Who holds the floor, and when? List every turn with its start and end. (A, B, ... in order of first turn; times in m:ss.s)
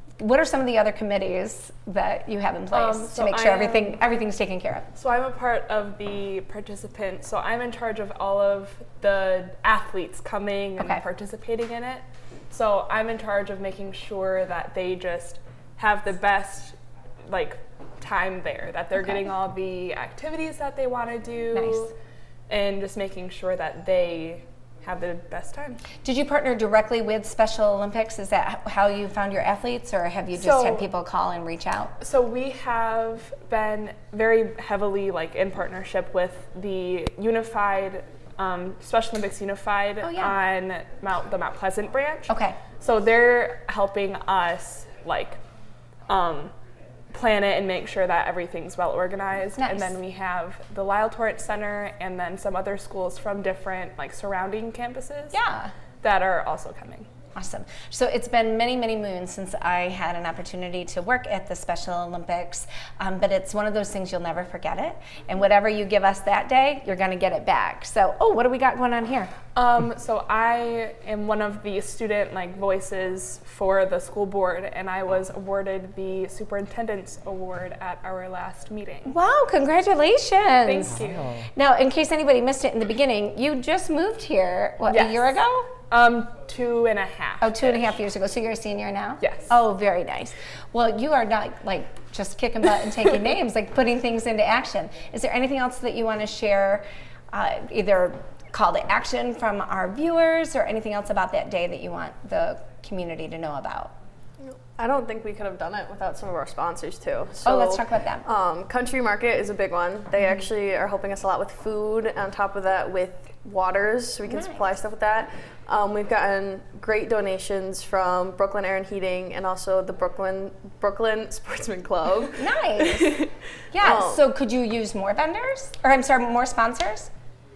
0:00.2-0:04.9 A
0:02.7-0:04.0 B
0:04.9-0:16.8 B
0:17.3-0:21.9 B
0:21.5-0:21.9 A
0:22.5-0:25.8 B
0:26.0-0:31.9 A
0:30.3-0:30.9 B
0:32.0-0:45.4 B
0:40.0-0:40.4 A
0:42.3-0:42.6 A
0:46.1-0:46.5 B
0:47.1-0:55.4 B
0:49.6-0:49.9 A
0:55.3-0:55.7 A
0:56.0-0:57.1 B
0:57.3-1:09.3 A
1:09.5-1:19.1 B
1:19.0-1:25.7 A
1:20.6-1:21.4 B
1:24.8-1:25.3 B
1:25.9-1:27.9 B
1:27.4-1:43.9 A
1:29.2-1:29.5 B
1:44.4-2:02.5 C
1:47.4-1:48.2 A
1:54.3-1:54.6 A
2:02.4-2:07.1 A
2:03.8-2:04.2 C